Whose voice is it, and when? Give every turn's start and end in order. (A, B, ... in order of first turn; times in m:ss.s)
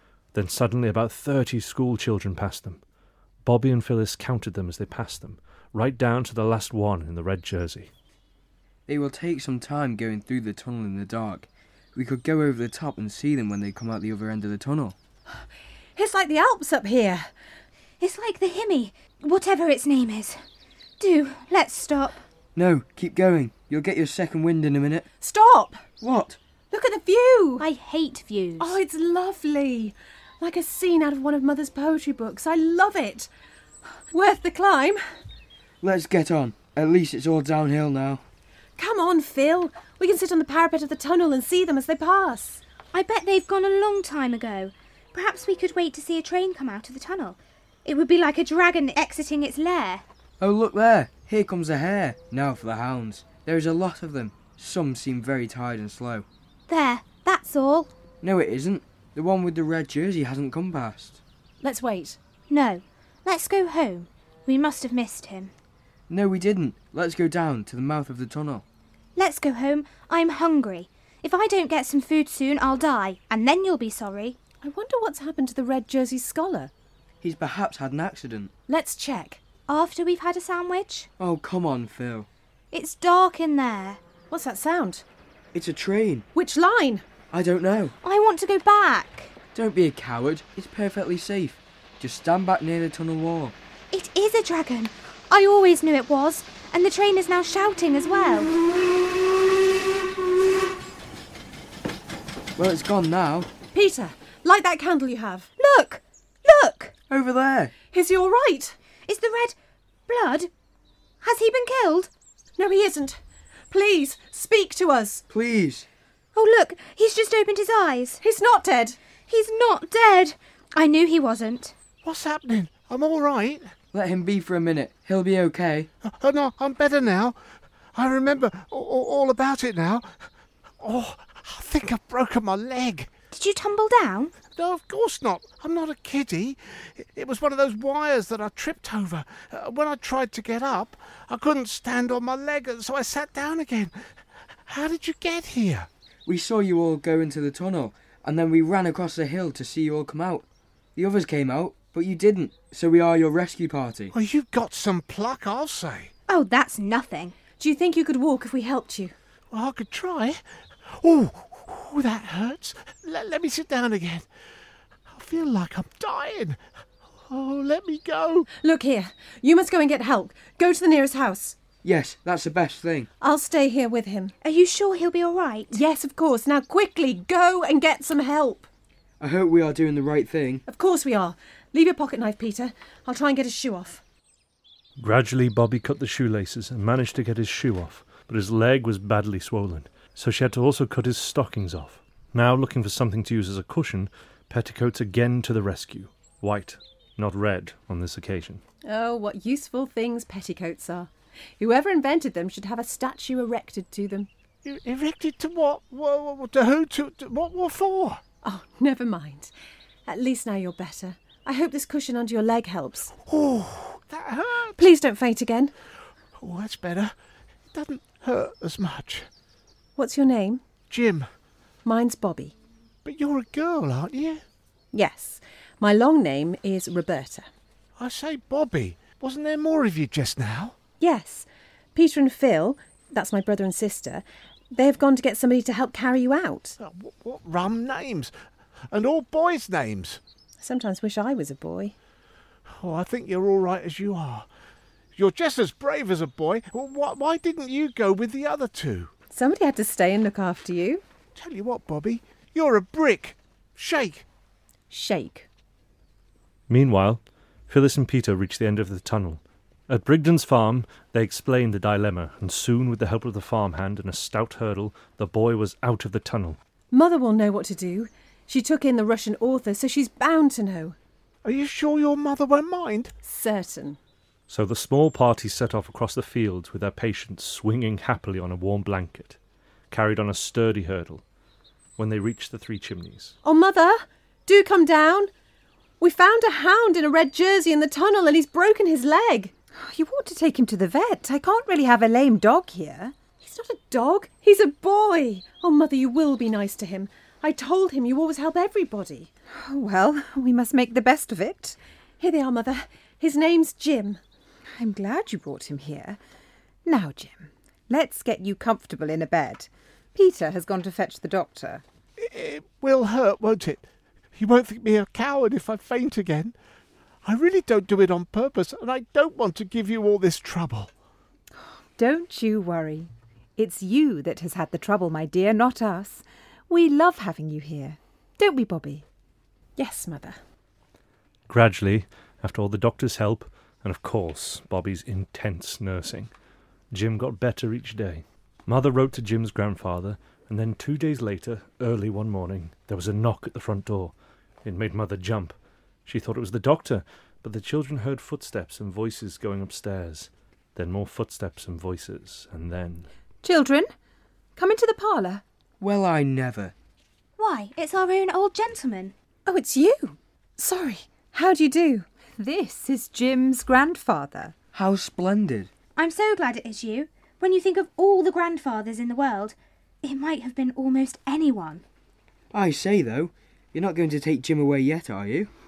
0:00.3-0:02.8 A
0:03.4-0:07.9 A
0:08.9-0:15.0 B
0:15.3-0:17.3 C
0:18.0-0:20.4 D
0:21.0-0:22.2 D
0:22.5-0:25.1 B
0:25.2-0:25.8 C
0:26.0-0:26.4 B
0:26.7-0:27.6 C
0:27.6-0:28.8 D
0:28.6-0:33.3 C
0:34.1-0:35.0 C
0:35.8-0:38.2 B
0:38.8-0:42.6 C
0:42.9-0:50.0 D
0:50.4-0:56.2 B
0:56.7-0:57.9 D
0:58.2-1:01.2 B
1:01.6-1:02.2 C
1:02.5-1:05.5 D
1:06.1-1:08.6 B
1:09.1-1:14.4 D
1:14.6-1:16.7 C
1:17.2-1:18.5 B
1:18.7-1:19.4 C
1:19.7-1:21.1 D
1:21.2-1:22.3 B
1:22.7-1:24.0 D
1:24.3-1:25.0 C
1:25.5-1:26.3 B
1:26.3-1:27.0 C
1:27.3-1:27.9 B
1:28.0-1:29.3 D
1:29.5-1:33.5 B
1:33.9-1:38.5 D
1:42.6-1:43.5 B
1:43.7-1:45.5 C
1:45.6-1:46.9 D
1:47.1-1:47.7 B
1:47.9-1:48.8 C
1:49.0-1:49.6 D
1:50.1-1:50.5 D
1:51.2-1:52.1 D
1:52.6-1:55.2 C
1:55.3-1:55.8 B
1:56.3-1:58.2 D
1:58.2-1:59.0 C
1:59.3-2:01.7 D
2:02.0-2:03.7 E
2:03.9-2:05.9 B
2:06.0-2:07.4 E
2:07.9-2:10.3 E
2:10.8-2:13.1 E
2:13.3-2:14.3 D
2:14.5-2:24.1 E
2:24.7-2:25.9 E
2:26.2-2:34.1 B
2:34.1-2:36.1 E
2:36.3-2:37.3 D
2:37.6-2:39.1 C
2:39.5-2:44.3 E
2:45.1-2:46.6 E
2:47.3-2:48.5 E
2:48.6-2:51.6 C
2:51.8-2:53.1 B
2:53.2-2:54.3 C
2:54.4-2:55.8 D
2:55.7-2:58.7 C
2:59.2-3:00.6 B
3:00.7-3:04.0 C
3:05.0-3:18.6 A
3:18.8-3:24.3 C
3:24.6-3:28.2 E
3:28.4-3:29.5 C
3:30.1-3:33.1 C
3:33.2-3:34.8 E
3:34.8-3:35.7 C
3:36.4-3:37.1 E
3:37.7-3:39.3 E
3:40.0-3:40.6 C
3:40.9-3:41.3 E
3:41.8-3:42.5 C
3:43.0-3:44.4 E
3:44.9-3:47.5 C
3:48.0-3:50.8 E
3:51.0-3:56.8 C
3:56.8-3:58.3 E
3:58.9-4:00.2 E
4:00.6-4:01.9 C
4:02.7-4:04.5 E
4:05.1-4:09.1 E
4:09.3-4:11.0 C
4:11.3-4:14.2 E
4:14.9-4:15.5 C
4:16.7-4:26.6 A
4:26.9-4:31.0 C
4:31.4-4:33.1 E
4:33.2-4:34.0 C
4:34.5-4:39.4 A
4:39.9-4:41.2 A
4:42.0-4:43.4 A
4:43.4-4:45.3 C
4:46.0-4:49.5 C
4:49.8-4:53.2 F
4:53.4-4:59.3 C
4:59.5-5:01.8 F
5:02.2-5:04.2 C
5:04.8-5:06.2 F
5:06.8-5:11.8 F
5:12.2-5:16.5 E
5:17.2-5:20.9 E
5:21.9-5:29.0 F
5:29.8-5:30.4 C
5:31.5-5:36.3 A
5:36.9-5:53.1 A
5:53.4-5:53.9 F
5:54.6-5:55.4 F
5:55.8-5:56.7 B
5:57.4-5:59.1 D
5:59.4-6:02.0 C
6:02.4-6:04.5 F
6:04.7-6:05.7 B
6:05.9-6:11.8 D
6:12.5-6:15.5 B